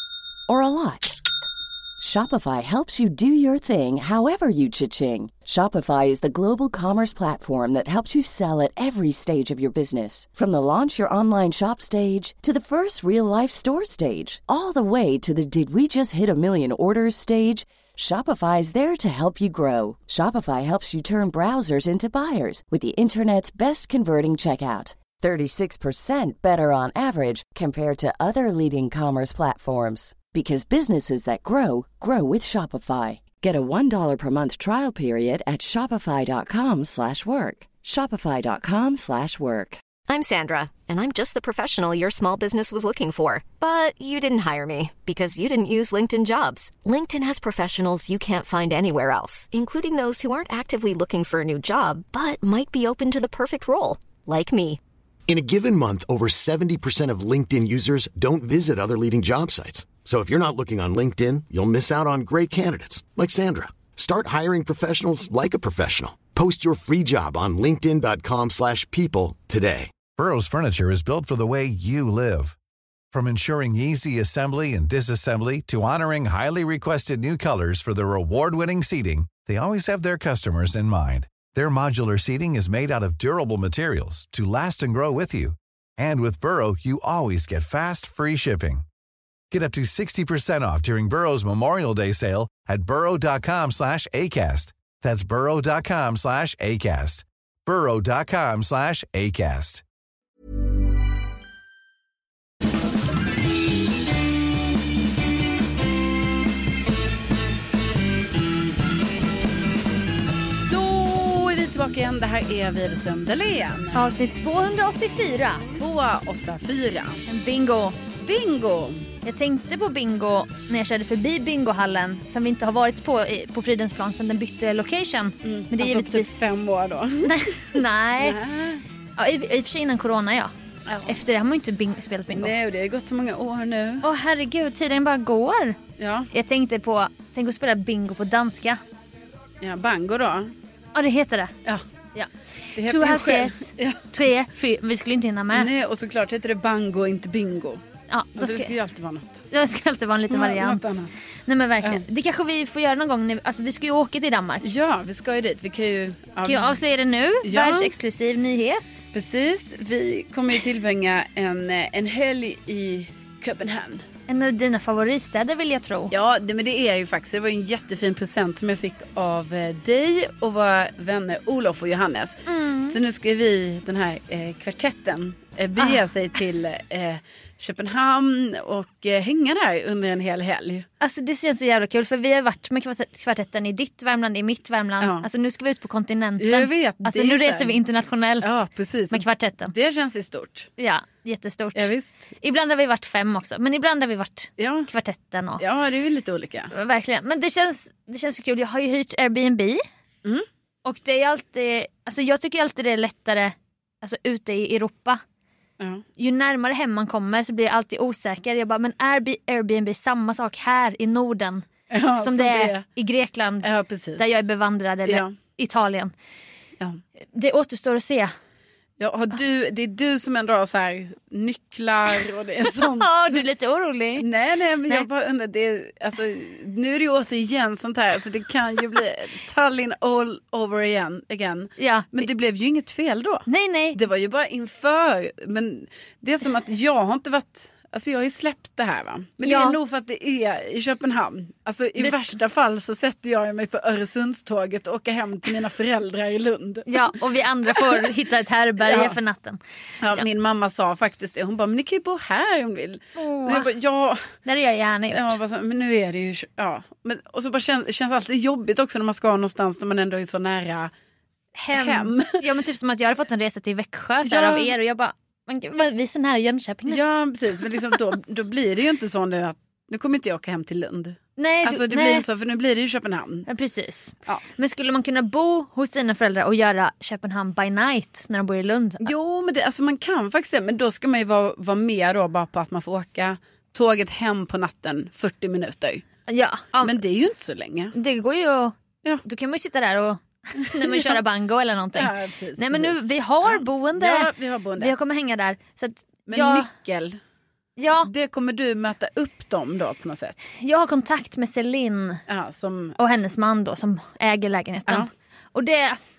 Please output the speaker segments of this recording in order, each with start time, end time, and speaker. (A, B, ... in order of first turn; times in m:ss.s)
0:00.5-0:01.2 A
0:02.0-0:39.8 A
0:40.1-0:54.8 B
0:55.3-1:09.9 C
1:10.2-1:12.6 D
1:13.1-1:28.8 D
1:29.5-1:39.8 D
1:50.6-1:54.1 E
1:53.9-1:55.7 F
1:55.7-1:57.2 E
1:57.3-1:58.0 F
1:58.2-1:59.1 E
1:59.2-2:06.3 F
2:05.4-2:08.8 E
2:07.2-2:08.4 F
2:09.2-2:10.5 F
2:10.8-2:11.2 E
2:11.1-2:12.5 F
2:12.3-2:14.1 E
2:14.0-2:15.8 F
2:16.0-2:16.3 E
2:16.3-2:18.8 F
2:19.6-2:20.5 E
2:20.9-2:21.5 F
2:22.1-2:25.7 F
2:22.8-2:24.1 E
2:25.5-2:27.8 E
2:28.1-2:28.7 F
2:28.4-2:29.5 E
2:29.5-2:30.8 F
2:30.3-2:31.2 E
2:31.5-2:34.7 F
2:34.6-2:36.8 E
2:36.4-2:39.0 F
2:37.4-2:37.9 E
2:39.1-2:44.0 E
2:44.3-2:46.1 F
2:46.1-3:00.9 E
2:52.5-2:53.0 F
2:55.8-2:56.0 F
3:01.0-3:09.7 F
3:05.0-3:05.3 E
3:06.4-3:07.7 E
3:08.4-3:10.7 E
3:10.8-3:11.9 F
3:11.7-3:12.3 E
3:12.4-3:15.6 F
3:14.6-3:14.9 E
3:15.6-3:16.7 E
3:16.7-3:19.8 F
3:20.8-3:25.2 F
3:25.8-3:26.0 E
3:26.2-3:31.6 F
3:31.9-3:32.8 E
3:32.2-3:36.1 F
3:33.6-3:34.3 E
3:35.0-3:35.3 E
3:37.3-3:38.3 F
3:39.0-3:43.4 E
3:42.8-3:44.3 F
3:44.2-4:07.1 E
3:51.8-3:52.3 F
3:53.5-3:54.0 F
3:59.4-3:59.8 F
4:06.9-4:10.2 F
4:07.7-4:08.1 E
4:08.8-4:09.2 E
4:10.0-4:14.3 E
4:13.2-4:13.7 F
4:14.4-4:15.4 F
4:15.1-4:20.9 E
4:21.6-4:27.0 F
4:21.7-4:22.4 E
4:24.2-4:24.7 E
4:26.9-4:33.5 E
4:31.4-4:32.2 F
4:33.5-4:39.1 F
4:39.0-4:46.0 E
4:46.3-4:47.0 F
4:46.8-4:47.9 E
4:47.9-4:56.7 F
4:50.6-4:51.2 E
4:51.9-4:54.9 E
4:56.3-4:57.2 E
4:57.8-4:58.1 F
4:58.0-5:00.4 E
5:00.6-5:02.2 F
5:02.3-5:03.0 E
5:03.0-5:06.0 F